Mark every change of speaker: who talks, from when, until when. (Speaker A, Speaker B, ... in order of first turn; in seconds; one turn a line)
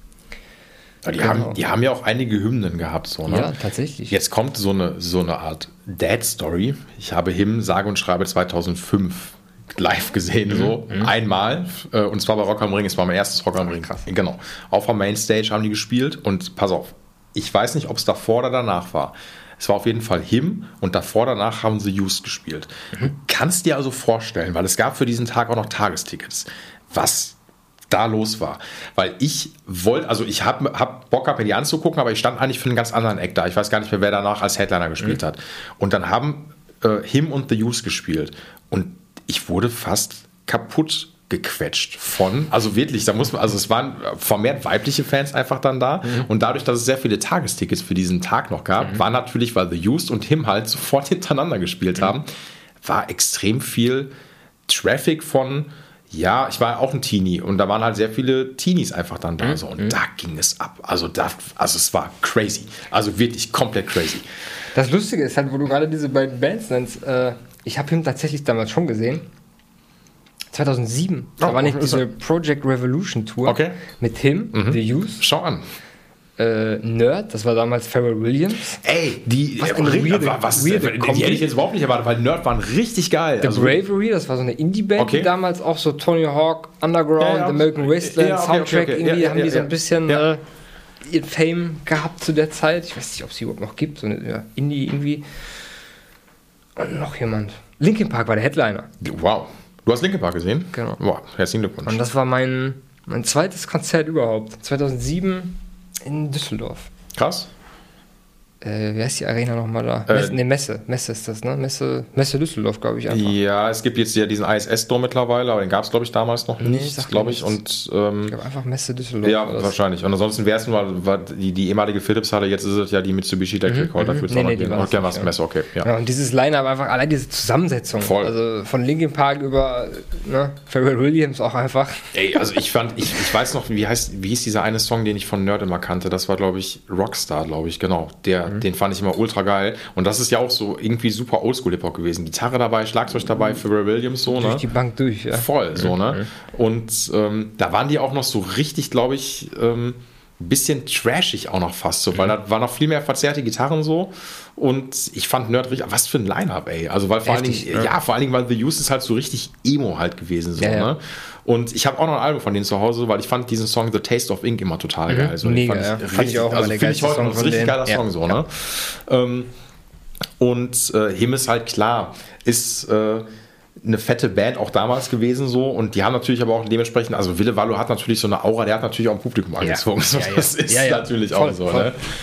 Speaker A: 1.0-3.5
Speaker B: 1.2-1.6
Speaker B: 3.3-4.1
Speaker A: 4.1-27.4
Speaker B: 10.5-11.1
Speaker A: 27.9-52.3
Speaker A: 52.8-54.1
Speaker A: 54.7-64.2
Speaker B: 59.4-60.0
Speaker B: 64.8-69.2
Speaker B: 70.5-75.2
Speaker A: 71.4-72.0
Speaker A: 73.5-73.8
Speaker A: 74.5-75.6
Speaker B: 76.4-78.8
Speaker A: 78.8-83.8
Speaker B: 79.6-81.5
Speaker B: 83.4-90.4
Speaker A: 85.0-85.3
Speaker A: 87.2-90.3
Speaker B: 91.0-95.2
Speaker B: 96.8-98.9
Speaker A: 99.0-102.0
Speaker B: 100.7-101.0
Speaker B: 101.9-106.9
Speaker A: 107.1-107.5
Speaker B: 108.6-113.3
Speaker A: 110.1-110.4
Speaker A: 113.1-118.3
Speaker B: 116.6-117.6
Speaker B: 118.3-119.7
Speaker A: 119.2-125.9
Speaker B: 123.7-125.3
Speaker B: 125.8-132.1
Speaker A: 128.0-128.3
Speaker A: 132.1-144.7
Speaker B: 144.3-146.3
Speaker A: 145.3-169.5
Speaker B: 157.3-157.9
Speaker B: 160.6-160.9
Speaker B: 165.1-168.3
Speaker A: 170.4-173.3
Speaker A: 173.8-182.1
Speaker B: 179.6-181.9